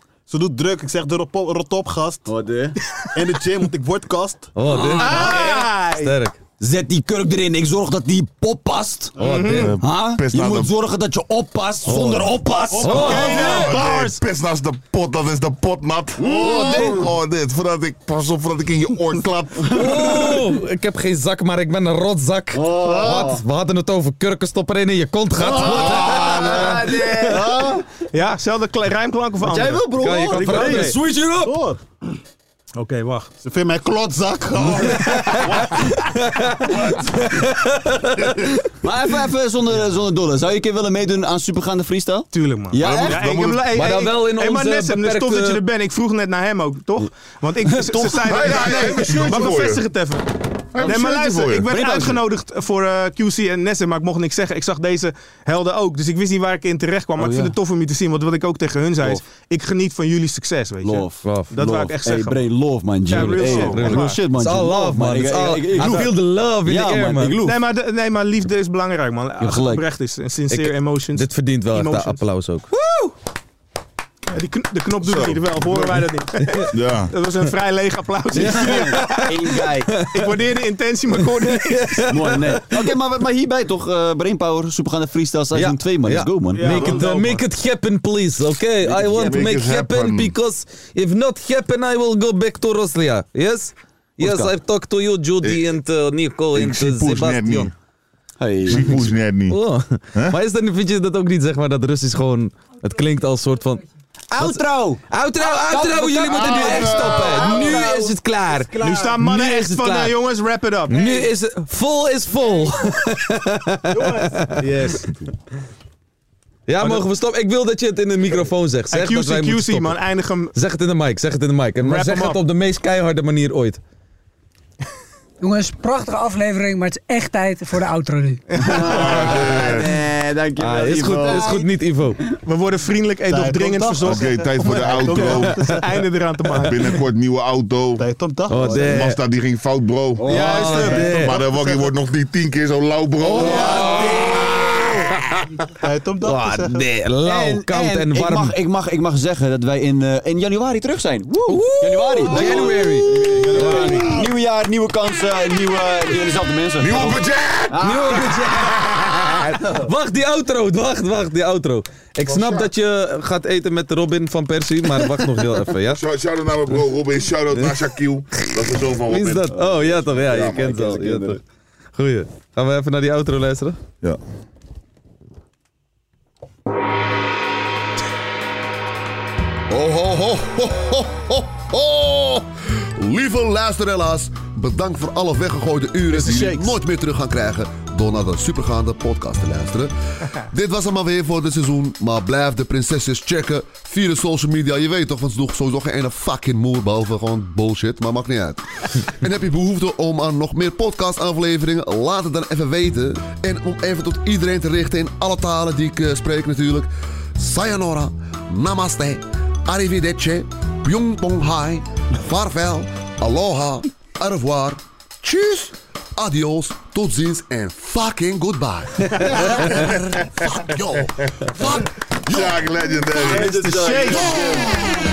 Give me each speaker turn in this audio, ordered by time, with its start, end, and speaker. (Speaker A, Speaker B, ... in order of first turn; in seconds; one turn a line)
Speaker A: 0.3-2.3
Speaker B: 2.3-2.8
Speaker A: 3.1-5.6
Speaker C: 4.5-6.4
Speaker B: 4.7-5.7
Speaker D: 5.0-6.2
Speaker B: 6.6-9.2
Speaker A: 9.2-9.5
Speaker C: 9.2-9.8
Speaker D: 9.2-9.7
Speaker E: 9.5-10.7
Speaker B: 9.8-14.1
Speaker C: 11.8-13.8
Speaker A: 12.7-14.1
Speaker D: 13.0-13.9
Speaker E: 13.0-20.0
Speaker B: 16.2-17.1
Speaker B: 19.7-20.3
Speaker C: 19.7-27.6
Speaker B: 22.5-23.4
Speaker A: 25.4-26.4
Speaker B: 25.4-27.9
Speaker D: 28.1-30.1
Speaker B: 29.4-31.0
Speaker C: 30.0-31.6
Speaker A: 30.3-32.2
Speaker D: 32.8-33.3
Speaker A: 33.4-35.9
Speaker C: 34.8-38.6
Speaker B: 38.8-44.1
Speaker A: 42.4-42.7
Speaker D: 42.4-62.5
Speaker E: 42.8-43.8
Speaker C: 43.7-45.6
Speaker B: 47.7-49.4
Speaker E: 48.2-49.8
Speaker E: 50.7-51.7
Speaker B: 50.8-51.1
Speaker B: 51.7-52.2
Speaker B: 57.2-57.5
Speaker B: 59.0-59.2
Speaker B: 60.8-67.6
Speaker C: 61.2-61.5
Speaker D: 63.1-64.2
Speaker C: 63.1-67.4
Speaker D: 65.8-66.1
Speaker D: 67.4-72.2
Speaker B: 69.4-69.8
Speaker C: 70.5-72.7
Speaker D: 72.7-73.0
Speaker D: 74.3-79.5
Speaker E: 75.0-75.8
Speaker C: 76.5-76.7
Speaker E: 76.7-77.1
Speaker C: 78.3-79.4
Speaker B: 78.3-80.1
Speaker C: 79.9-80.4
Speaker D: 80.0-82.1
Speaker C: 81.2-82.8
Speaker B: 82.1-87.1
Speaker C: 85.5-97.7
Speaker D: 86.5-87.4
Speaker A: 86.7-87.0
Speaker B: 88.8-89.6
Speaker E: 89.0-90.3
Speaker E: 94.2-94.5
Speaker E: 95.4-95.7
Speaker E: 96.5-97.7
Speaker B: 98.4-99.1
Speaker E: 98.7-99.6
Speaker C: 99.5-103.8
Speaker B: 104.3-108.2
Speaker C: 104.4-110.2
Speaker A: 106.3-109.2
Speaker D: 108.8-111.3
Speaker C: 110.9-115.0
Speaker A: 113.9-114.8
Speaker D: 114.6-115.1
Speaker C: 116.7-120.0
Speaker D: 118.9-120.5
Speaker C: 120.5-123.8
Speaker D: 121.8-122.4
Speaker F: 125.4-128.4
Speaker D: 128.6-128.8
Speaker B: 128.6-131.7
Speaker E: 128.7-130.0
Speaker C: 130.6-132.2
Speaker A: 131.1-131.5
Speaker D: 132.5-136.8
Speaker A: 133.3-135.9
Speaker E: 134.0-135.6
Speaker E: 136.6-138.1
Speaker A: 138.0-139.1
Speaker C: 138.5-139.2
Speaker E: 138.6-143.9
Speaker A: 140.2-141.9
Speaker C: 140.3-141.4
Speaker A: 143.3-144.7
Speaker B: 143.3-145.0
Speaker C: 143.4-144.5
Speaker A: 145.8-146.9
Speaker C: 146.2-148.6
Speaker B: 147.2-159.8
Speaker C: 151.5-154.0
Speaker A: 152.3-154.3
Speaker E: 156.8-158.6
Speaker C: 157.8-166.0
Speaker E: 162.2-162.7
Speaker E: 165.9-169.7
Speaker C: 168.4-171.4
Speaker B: 170.8-171.4
Speaker C: 172.0-173.8
Speaker G: 179.7-222.6
Speaker D: 186.1-186.7
Speaker E: 222.3-223.6
Speaker B: 223.2-224.4
Speaker D: 223.3-224.4
Speaker G: 224.0-224.8